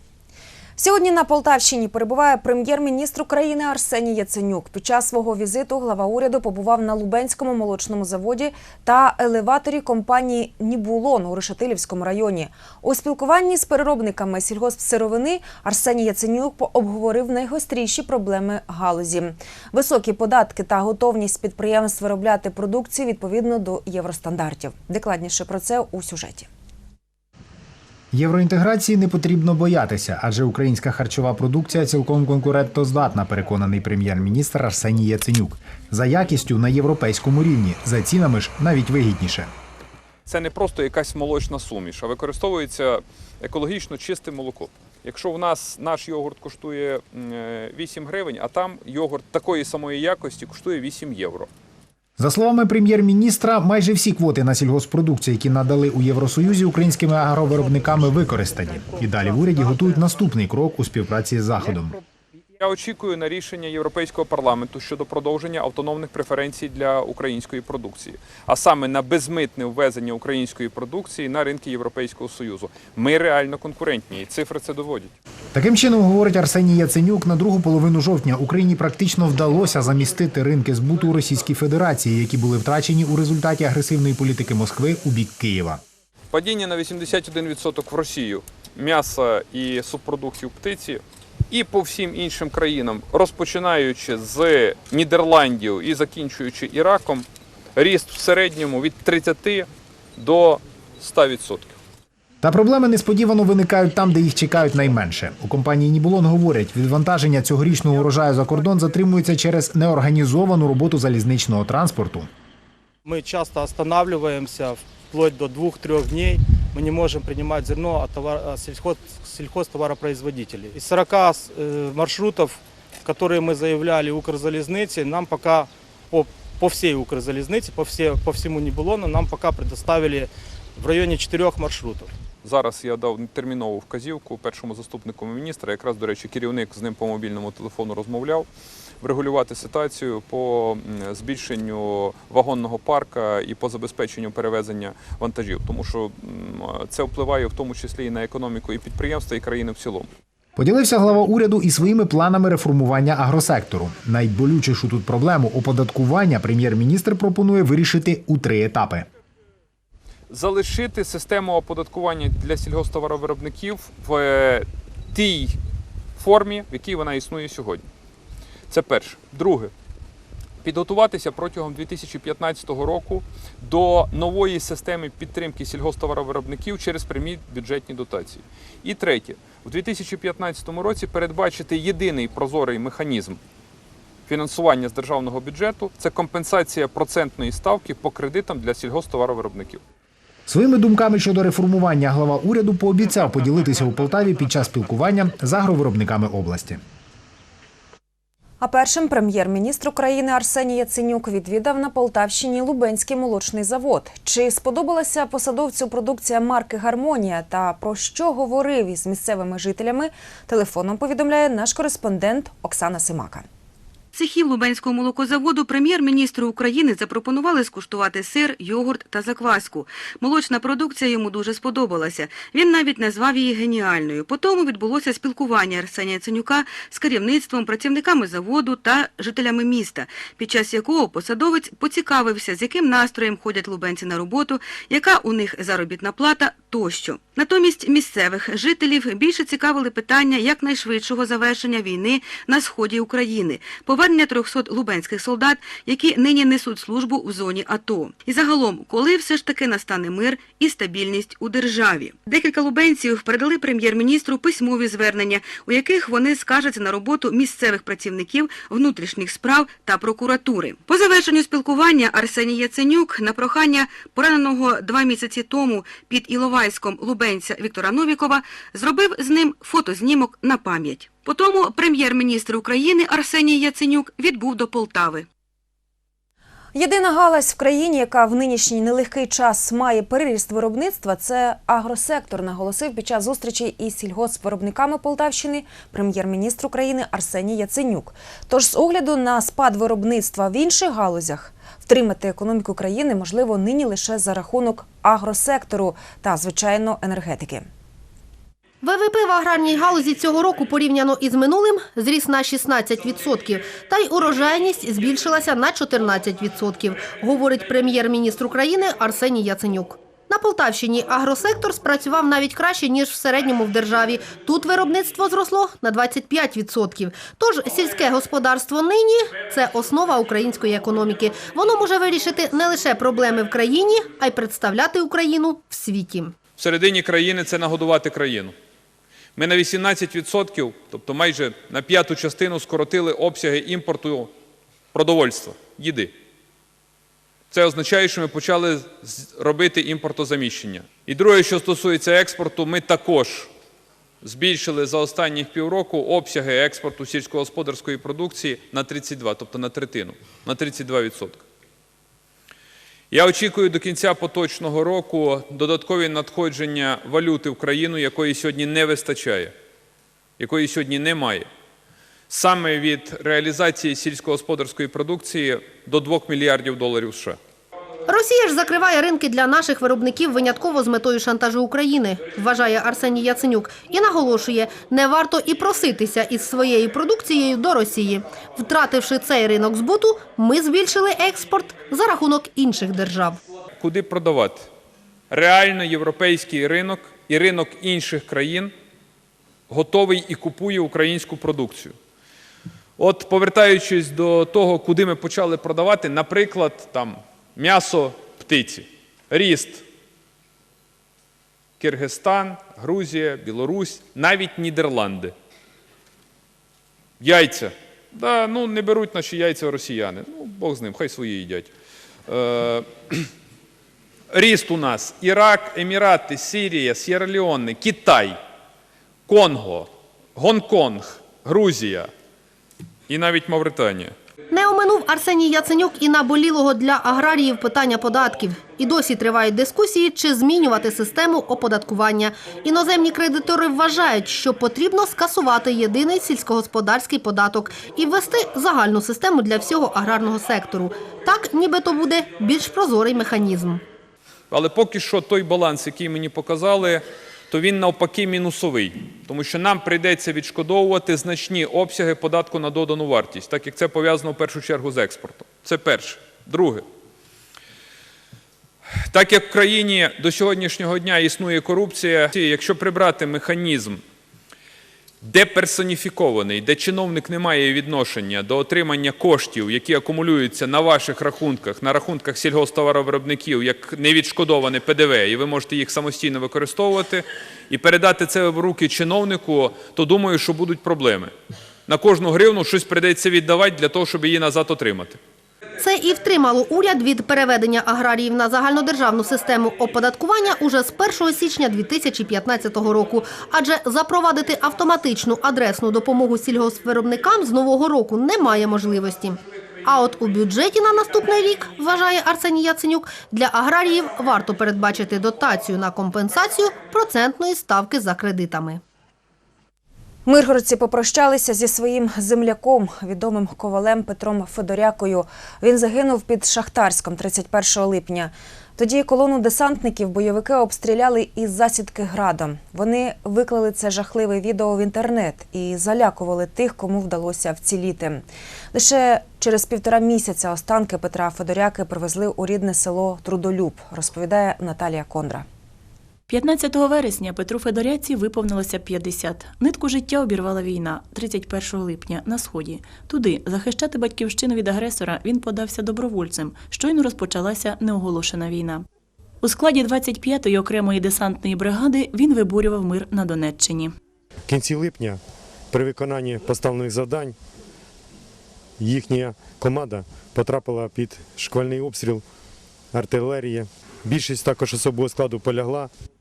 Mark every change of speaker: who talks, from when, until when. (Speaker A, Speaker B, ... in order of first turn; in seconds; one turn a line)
Speaker A: 0.8-26.5
Speaker B: 28.1-39.5
Speaker C: 40.3-51.5
Speaker B: 52.2-62.0
Speaker C: 62.6-75.1
Speaker B: 75.5-85.8
Speaker C: 86.3-101.8
Speaker B: 102.4-112.3
Speaker D: 113.0-132.1
Speaker C: 132.4-138.5
Speaker C: 139.0-150.1
Speaker B: 150.6-159.1
Speaker C: 160.3-165.6
Speaker C: 166.2-167.9
Speaker C: 168.7-169.7
Speaker C: 170.6-183.4
Speaker C: 184.3-189.8
Speaker B: 190.5-196.8
Speaker A: 198.6-213.5
Speaker E: 214.1-275.3
Speaker A: 276.8-297.7
Speaker F: 298.8-326.3
Speaker C: 326.6-328.6
Speaker C: 329.4-334.3
Speaker C: 334.9-336.1
Speaker C: 337.5-343.5
Speaker C: 344.2-351.4
Speaker C: 353.1-359.5
Speaker C: 360.4-361.5
Speaker C: 362.3-367.4
Speaker F: 368.1-383.4
Speaker C: 383.8-384.7
Speaker C: 385.3-388.7
Speaker C: 389.7-391.9
Speaker C: 393.0-399.8
Speaker C: 401.8-405.3
Speaker C: 407.2-411.7
Speaker C: 412.3-413.3
Speaker C: 414.3-418.4
Speaker C: 419.3-422.1
Speaker C: 423.1-424.1
Speaker F: 424.5-443.8
Speaker C: 444.5-456.9
Speaker C: 459.1-464.0
Speaker C: 465.2-481.3
Speaker C: 481.9-485.2
Speaker F: 485.8-508.8
Speaker A: 510.3-535.5
Speaker G: 536.3-548.9
Speaker G: 549.4-554.0
Speaker H: 554.5-557.4
Speaker H: 558.8-562.2
Speaker H: 562.9-565.9